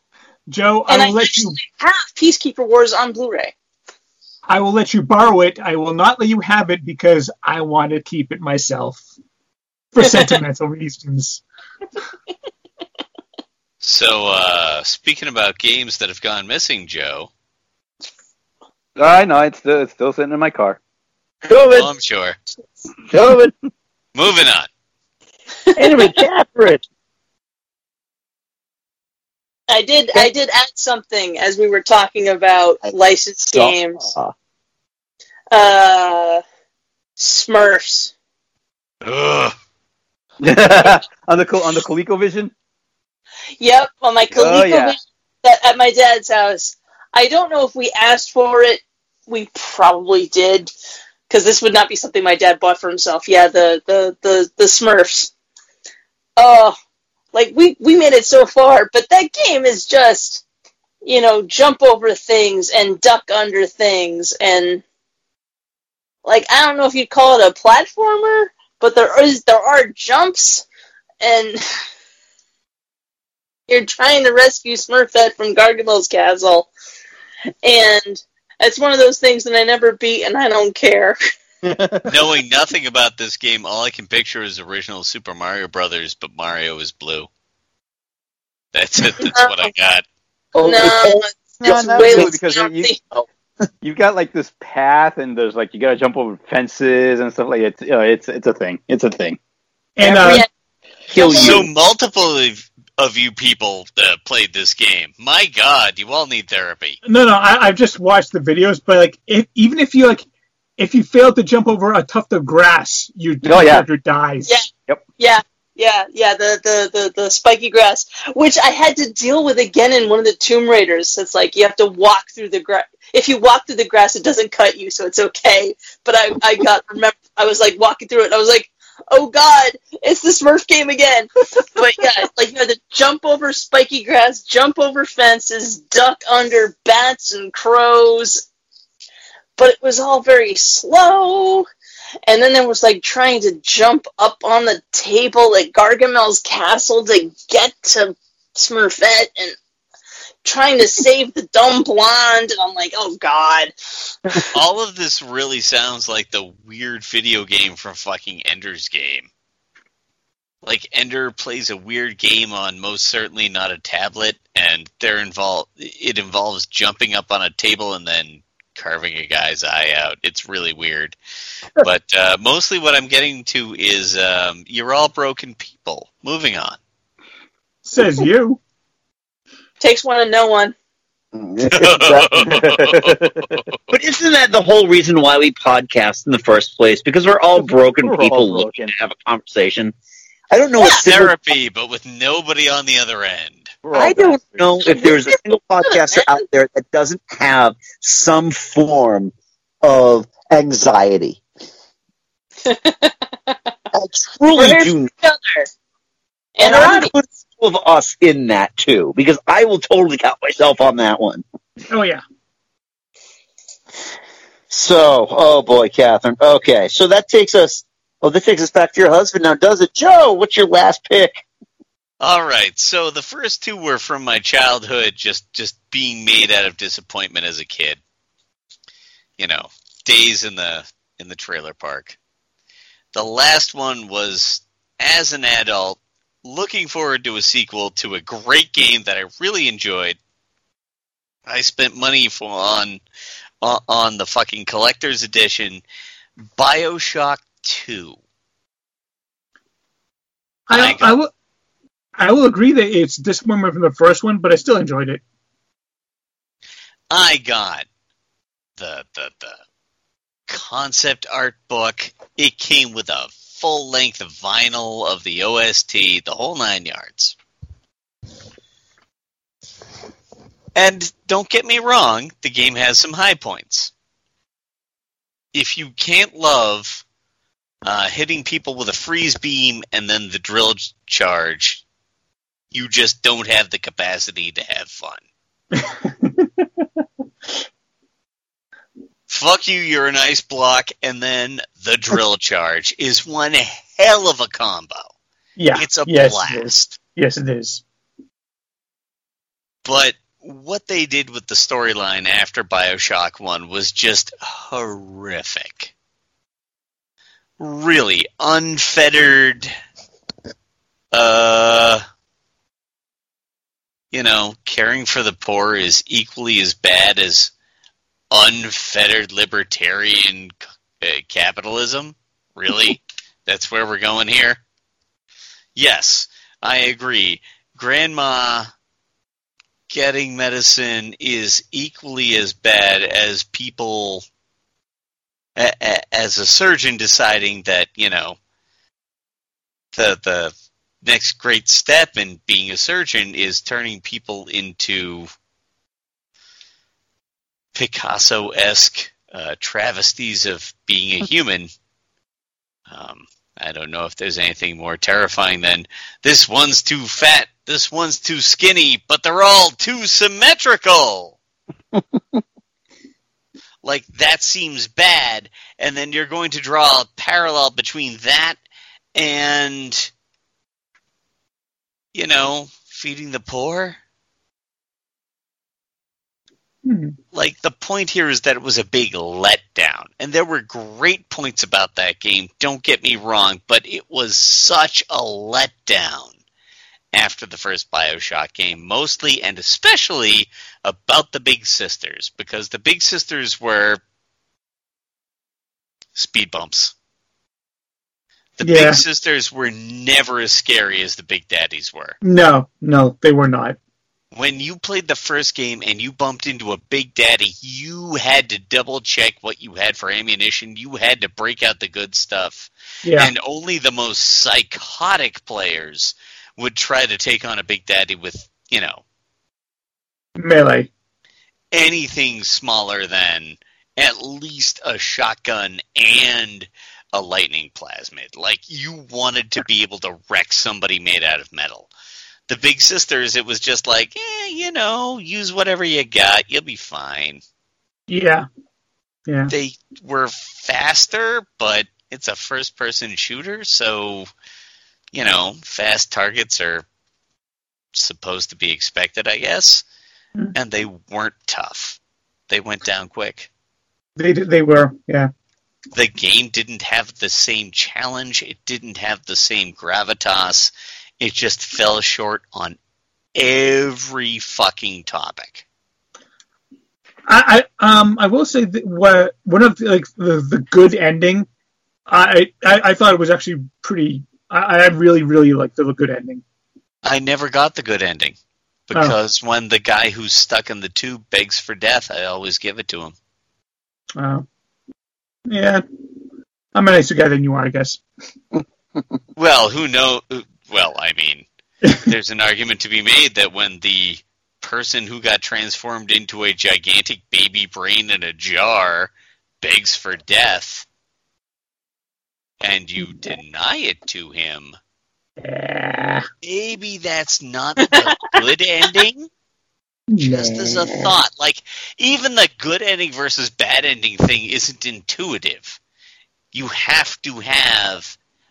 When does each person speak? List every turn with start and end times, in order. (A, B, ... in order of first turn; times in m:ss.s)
0:00.5-0:01.6 A
0:00.9-0:03.5 B
0:04.5-0:09.0 A
0:09.9-0:11.4 A
0:10.0-0:10.3 B
0:13.8-0:17.3 C
0:19.0-0:20.8 D
0:21.4-0:21.9 E
0:21.7-0:22.4 C
0:23.1-0:23.5 E
0:24.1-0:24.7 C
0:25.7-0:26.1 B
0:25.8-0:26.8 E
0:29.7-0:34.1 B
0:33.5-0:34.3 E
0:35.5-0:36.4 B
0:37.2-0:38.1 B
0:39.0-0:39.5 C
0:40.4-0:42.5 D
0:43.6-0:50.7 B
0:44.3-0:45.0 D
0:51.3-0:55.3 B
0:56.4-0:56.8 B
0:57.3-1:00.4 B
1:01.0-1:04.8 B
1:06.2-1:10.6 B
1:11.2-1:11.6 B
1:13.7-1:16.7 B
1:17.6-1:21.2 B
1:21.6-1:22.1 D
1:22.0-1:27.3 C
1:28.7-1:30.0 C
1:30.5-1:32.4 E
1:30.6-1:33.0 B
1:31.6-1:32.9 D
1:33.8-1:39.4 D
1:40.0-1:40.4 A
1:40.0-1:40.4 D
1:41.1-1:41.7 E
1:41.1-1:41.6 B
1:41.3-1:47.0 C
1:47.0-1:50.2 A
1:50.8-1:54.6 A
1:53.4-1:53.8 D
1:54.4-2:18.4 B
2:19.6-2:21.7 B
2:22.2-2:29.6 B
2:30.4-2:33.7 B
2:34.5-2:39.3 C
2:40.6-2:51.2 C
2:51.8-2:56.8 C
2:57.8-2:58.6 A
2:59.8-3:00.7 B
3:01.3-3:02.5 E
3:01.7-3:03.7 C
3:02.5-3:03.5 D
3:03.9-3:09.9 E
3:08.0-3:08.9 D
3:10.5-3:11.3 E
3:10.9-3:13.7 C
3:13.8-3:14.7 D
3:13.9-3:21.4 E
3:15.8-3:16.3 B
3:22.6-3:23.6 B
3:23.9-3:25.1 E
3:24.5-3:25.7 B
3:26.6-3:27.1 B
3:26.6-3:31.4 E
3:31.9-3:32.2 A
3:34.7-3:41.4 E
3:42.2-3:48.0 C
3:49.4-3:52.2 C
3:53.1-4:00.2 C
4:01.5-4:03.0 C
4:03.6-4:05.8 C
4:06.6-4:08.2 C
4:10.7-4:11.3 A
4:10.7-4:11.2 C
4:12.2-4:15.2 A
4:17.1-4:17.8 C
4:18.8-4:19.6 C
4:20.5-4:27.3 C
4:30.7-4:33.9 C
4:35.5-4:37.0 C
4:37.8-4:41.8 C
4:42.7-4:45.2 C
4:45.7-4:46.8 A
4:49.3-4:55.1 C
4:55.6-4:57.8 A
4:55.7-4:57.0 C
4:59.8-5:05.9 C
5:07.6-5:09.7 C
5:11.1-5:12.0 C
5:14.1-5:17.5 C
5:18.3-5:24.6 C
5:25.8-5:28.7 C
5:29.9-5:34.2 C
5:35.6-5:38.4 C
5:39.9-5:45.3 C
5:47.7-5:51.7 C
5:52.9-6:01.4 C
6:03.8-6:08.6 C
6:09.1-6:10.1 C
6:12.1-6:14.0 C
6:16.8-6:17.1 A
6:17.3-6:26.3 C
6:27.1-6:34.0 C
6:36.1-6:36.9 C
6:38.6-6:42.2 C
6:38.6-6:39.0 A
6:42.2-6:43.8 A
6:44.3-6:59.0 C
6:53.0-6:53.3 A
7:00.4-7:00.9 A
7:01.7-7:11.9 C
7:12.5-7:17.4 C
7:18.1-7:18.4 A
7:19.3-7:19.5 A
7:19.5-7:24.3 C
7:25.1-7:26.8 C
7:27.9-7:29.8 C
7:30.5-7:33.5 C
7:34.2-7:35.3 A
7:35.9-7:42.8 C
7:43.4-7:45.6 C
7:47.3-7:51.4 A
7:52.1-7:56.4 A
7:57.0-7:58.3 C
7:58.9-8:03.1 C
8:04.2-8:04.4 A
8:05.5-8:05.8 A
8:06.7-8:08.0 A
8:09.4-8:11.4 C
8:12.1-8:20.8 C
8:22.6-8:24.8 C
8:25.4-8:26.2 A
8:26.4-8:29.3 C
8:30.1-8:31.1 A
8:30.2-8:35.8 C
8:36.5-8:38.2 C